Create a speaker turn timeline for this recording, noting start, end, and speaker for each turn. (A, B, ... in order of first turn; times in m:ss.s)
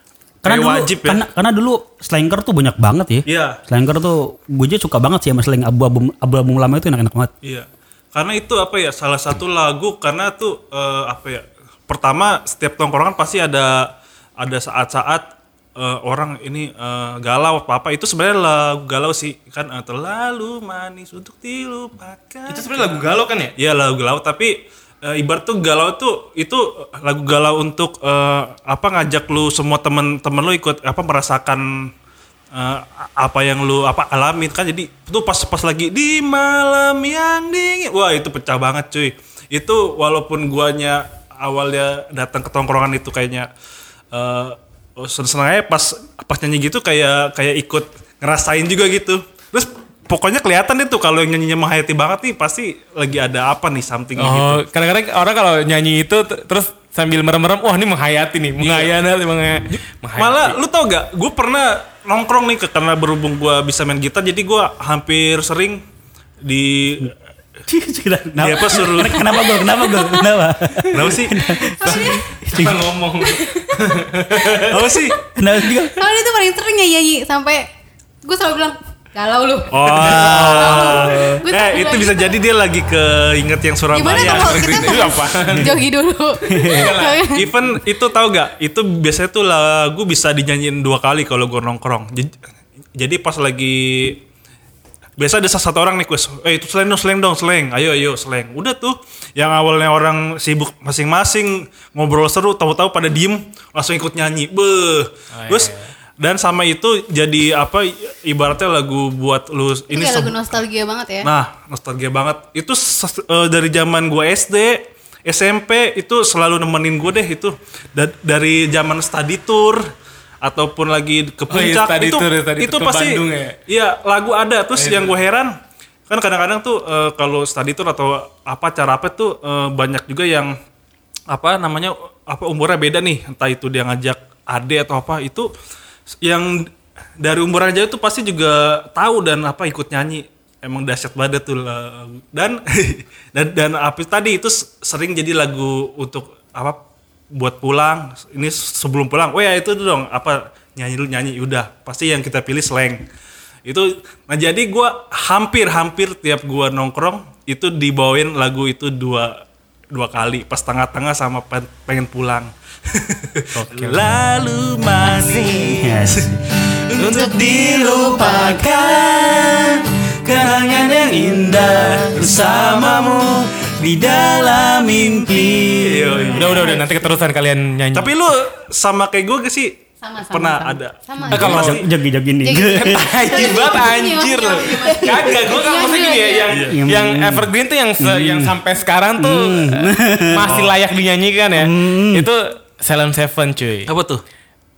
0:00.4-0:07.3 A
0:00.4-0:01.2 B
0:03.2-0:03.6 B
0:07.4-0:23.0 B
0:22.5-0:23.6 C
0:23.6-0:31.9 B
0:32.5-0:43.5 B
0:44.1-0:54.6 B
0:54.2-1:00.6 C
0:58.6-0:58.9 B
1:00.2-1:05.8 B
1:06.4-1:07.1 B
1:07.6-1:12.9 A
1:08.4-1:09.3 B
1:09.3-1:10.2 C
1:10.9-1:11.4 B
1:11.6-1:15.0 C
1:11.8-1:12.2 D
1:14.7-1:15.2 B
1:15.4-1:16.1 A
1:16.0-1:17.6 D
1:18.2-1:22.4 D
1:19.7-1:25.1 B
1:20.1-1:21.4 C
1:20.4-1:20.8 A
1:23.9-1:27.4 D
1:24.0-1:27.3 C
1:26.5-1:27.0 A
1:27.2-1:32.4 B
1:33.0-1:34.2 B
1:35.2-1:50.6 B
1:45.4-1:45.9 C
1:49.9-1:51.3 D
1:51.2-1:59.8 B
2:00.4-2:05.5 B
2:01.5-2:03.6 C
2:04.7-2:05.1 C
2:06.1-2:10.5 B
2:11.3-2:15.5 B
2:16.2-2:16.7 B
2:17.2-2:26.8 B
2:27.3-2:33.0 B
2:33.6-2:39.4 B
2:39.9-2:49.6 B
2:43.6-2:44.0 C
2:45.1-2:45.6 C
2:45.6-2:46.4 A
2:47.0-2:56.8 A
2:47.0-2:48.6 D
2:47.2-2:48.6 C
2:52.1-2:52.9 B
2:55.6-2:56.8 B
2:56.4-2:56.8 D
2:56.4-2:58.1 C
2:57.9-3:01.9 B
3:00.0-3:01.7 D
3:01.2-3:01.8 C
3:01.3-3:03.1 A
3:02.4-3:06.6 D
3:02.8-3:13.9 C
3:06.5-3:06.8 B
3:06.7-3:08.6 A
3:09.2-3:10.6 A
3:10.4-3:10.7 B
3:11.6-3:12.3 A
3:13.9-3:14.2 B